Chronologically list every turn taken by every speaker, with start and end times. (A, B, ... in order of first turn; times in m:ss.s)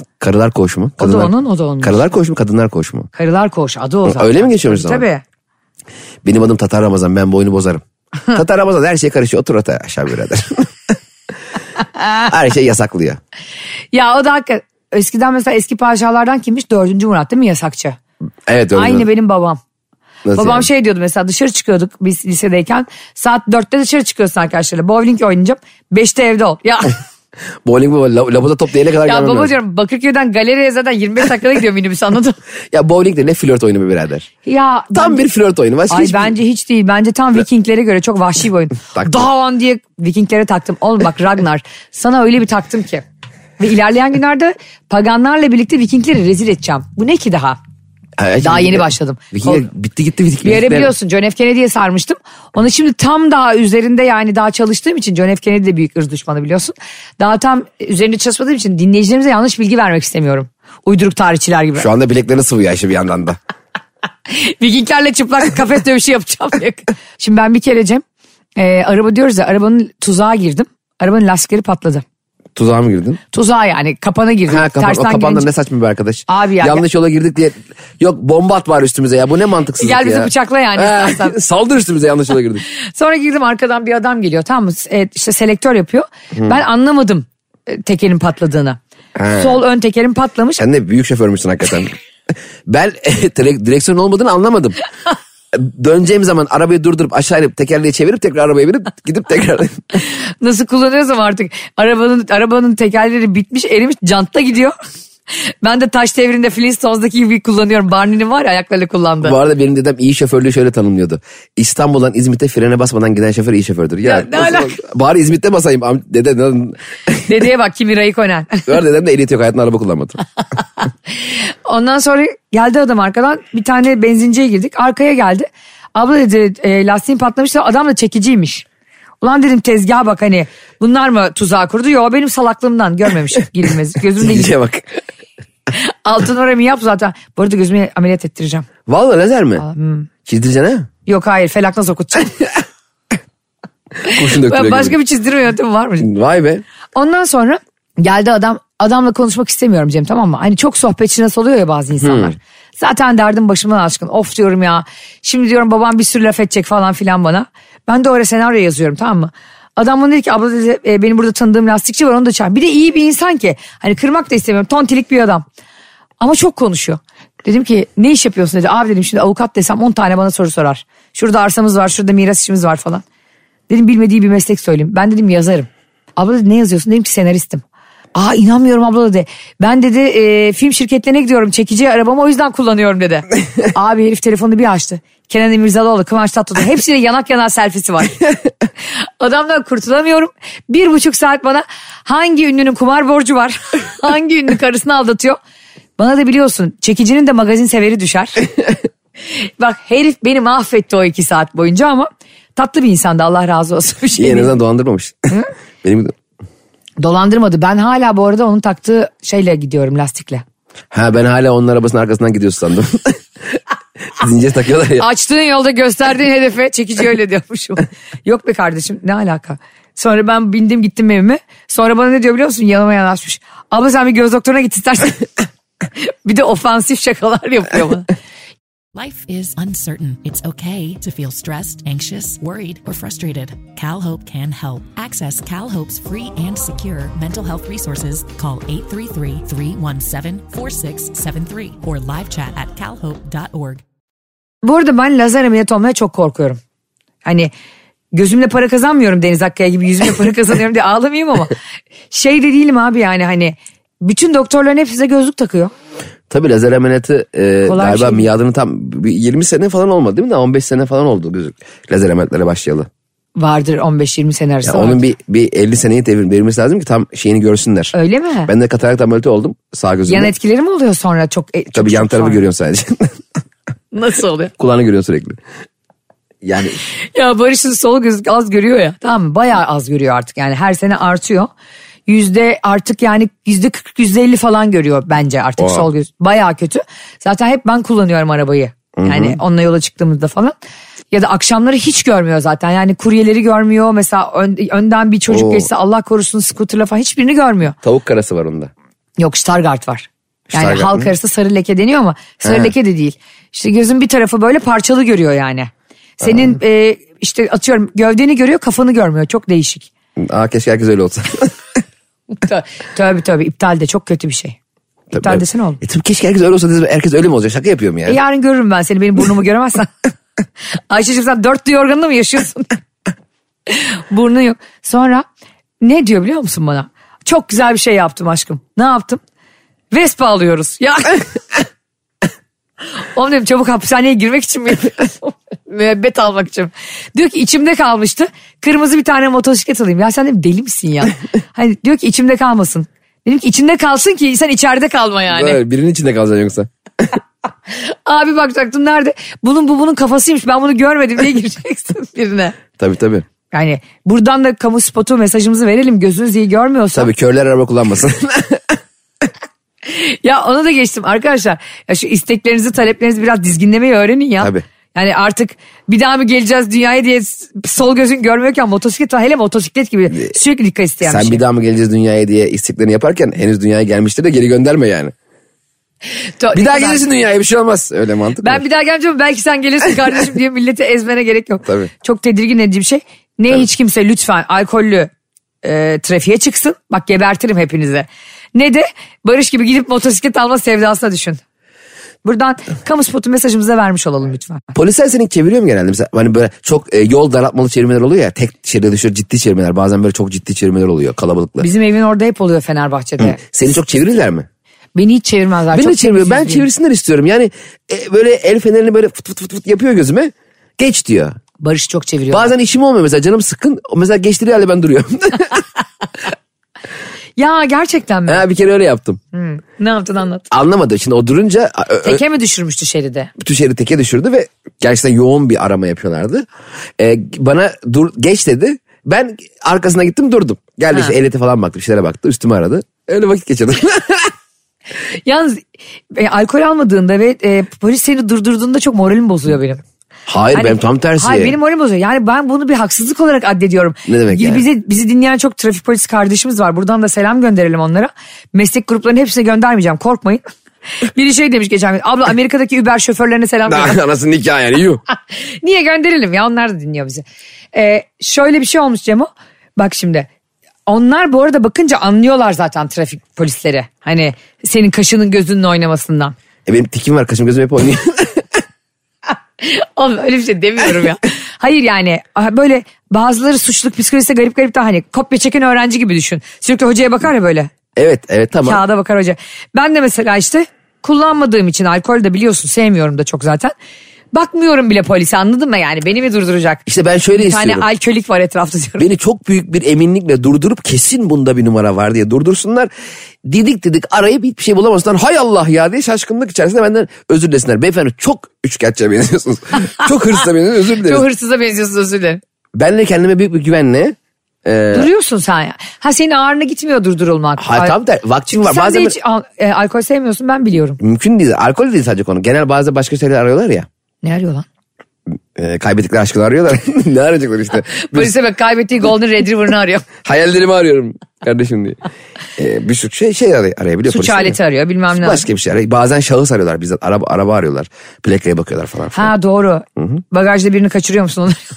0:00.2-0:03.1 A
0:01.0-0:02.1 B
0:03.1-0:05.2 B
0:04.0-0:05.0 A
0:06.2-0:10.9 A
0:12.2-0:13.2 A
0:13.9-0:18.0 B
0:18.5-0:19.0 A
0:18.7-0:19.6 B
0:20.2-0:20.6 A
0:20.3-0:27.0 B
0:27.6-0:29.5 A
0:29.0-0:32.4 B
0:32.7-0:34.3 A
0:34.4-0:35.2 B
0:34.9-0:36.4 A
0:35.9-0:43.0 B
0:38.9-0:39.3 A
0:43.6-0:47.6 B
0:48.2-0:50.9 A
0:48.4-0:49.7 B
0:50.4-1:01.9 B
1:01.8-1:03.4 A
1:04.3-1:08.0 B
1:08.6-1:12.0 B
1:12.5-1:13.2 A
1:13.3-1:15.5 B
1:14.5-1:22.6 A
1:16.3-1:16.8 B
1:19.8-1:21.4 B
1:22.7-1:28.8 B
1:29.2-1:29.6 A
1:29.3-1:30.6 B
1:30.6-1:31.9 A
1:32.7-1:34.8 A
1:35.5-1:40.0 A
1:40.1-1:44.7 B
1:45.4-1:49.4 B
1:49.2-1:57.3 A
1:54.0-1:54.8 B
1:57.3-1:58.7 B
1:58.7-2:00.2 A
2:01.2-2:08.6 B
2:09.2-2:14.5 B
2:14.2-2:15.0 A
2:15.7-2:18.7 B
2:18.9-2:19.6 A
2:19.6-2:20.1 B
2:20.2-2:20.9 A
2:21.0-2:22.4 B
2:24.0-2:26.1 B
2:24.1-2:25.0 A
2:26.0-2:26.6 A
2:26.9-2:45.4 B
2:32.0-2:32.3 A
2:46.2-2:53.0 B
2:53.7-2:57.6 B
2:58.1-3:08.2 B
3:09.2-3:15.4 B
3:16.0-3:18.4 B
3:19.3-3:24.5 B
3:24.2-3:26.1 A
3:27.0-3:30.4 B
3:30.9-3:33.6 A
3:34.1-3:35.0 A
3:35.0-3:45.3 B
3:46.0-3:48.1 B
3:48.9-4:03.8 C
4:04.6-4:06.6 B
4:07.2-4:07.5 B
4:08.1-4:11.5 B
4:12.1-4:15.7 B
4:16.3-4:22.9 A
4:17.6-4:18.3 B
4:23.4-4:25.0 B
4:24.6-4:27.9 A
4:27.9-4:28.5 B
4:28.5-4:30.3 A
4:30.1-4:32.4 B
4:31.7-4:33.2 A
4:33.9-4:34.5 B
4:34.6-4:35.4 A
4:36.4-4:36.8 A
4:37.1-4:41.5 B
4:42.1-4:50.6 B
4:45.6-4:45.9 A
4:49.0-4:49.4 A
4:51.1-4:57.8 B
4:55.3-4:55.7 A
4:57.8-4:58.7 A
4:59.2-5:09.9 B
5:00.5-5:01.1 A
5:02.4-5:02.7 A
5:06.2-5:06.5 A
5:10.2-5:11.6 A
5:12.4-5:14.6 B
5:15.1-5:18.2 A
5:15.2-5:15.8 B
5:18.0-5:19.9 B
5:20.9-5:22.8 B
5:23.7-5:25.2 B
5:25.8-5:29.2 B
5:29.9-5:31.2 B
5:33.0-5:45.6 B
5:45.3-5:46.7 A
5:47.8-5:52.6 B
5:52.8-5:53.2 A
5:53.5-5:57.1 B
5:56.9-5:58.8 A
5:59.9-6:11.4 B
6:11.0-6:15.1 A
6:16.4-6:17.0 B
6:16.5-6:18.6 A
6:18.4-6:25.1 B
6:21.6-6:21.9 A
6:25.6-6:31.4 B
6:32.2-6:34.7 B
6:34.7-6:41.7 A
6:41.6-6:43.4 B
6:43.2-6:44.5 A
6:44.9-6:46.6 B
6:45.7-6:51.4 A
6:51.6-6:52.5 B
6:52.3-6:55.6 A
6:57.4-6:58.4 B
6:58.3-6:59.2 A
6:59.3-7:00.5 B
7:00.5-7:02.2 A
7:02.0-7:03.3 B
7:03.4-7:06.4 A
7:07.0-7:14.3 A
7:15.2-7:19.8 B
7:20.3-7:21.6 A
7:20.5-7:30.4 B
7:24.1-7:24.6 A
7:31.0-7:34.0 B
7:33.7-7:35.0 A
7:35.3-7:40.3 B
7:40.9-7:46.3 B
7:46.6-7:48.6 A
7:49.6-7:57.7 B
7:58.0-7:58.8 A
7:58.6-8:03.7 B
8:04.3-8:06.8 B
8:06.9-8:07.8 A
8:07.3-8:09.1 B
8:09.0-8:12.9 A
8:13.4-8:21.3 A
8:21.0-8:22.4 B
8:22.7-8:25.1 A
8:24.9-8:27.9 B
8:27.6-8:29.2 A
8:28.5-8:31.0 B
8:31.0-8:33.9 A
8:34.2-8:34.6 B
8:35.6-8:38.3 A
8:37.9-8:40.1 B
8:40.2-8:42.0 A
8:42.6-8:44.6 A
8:44.1-8:45.4 B
8:45.1-8:49.3 A
8:49.1-8:51.6 B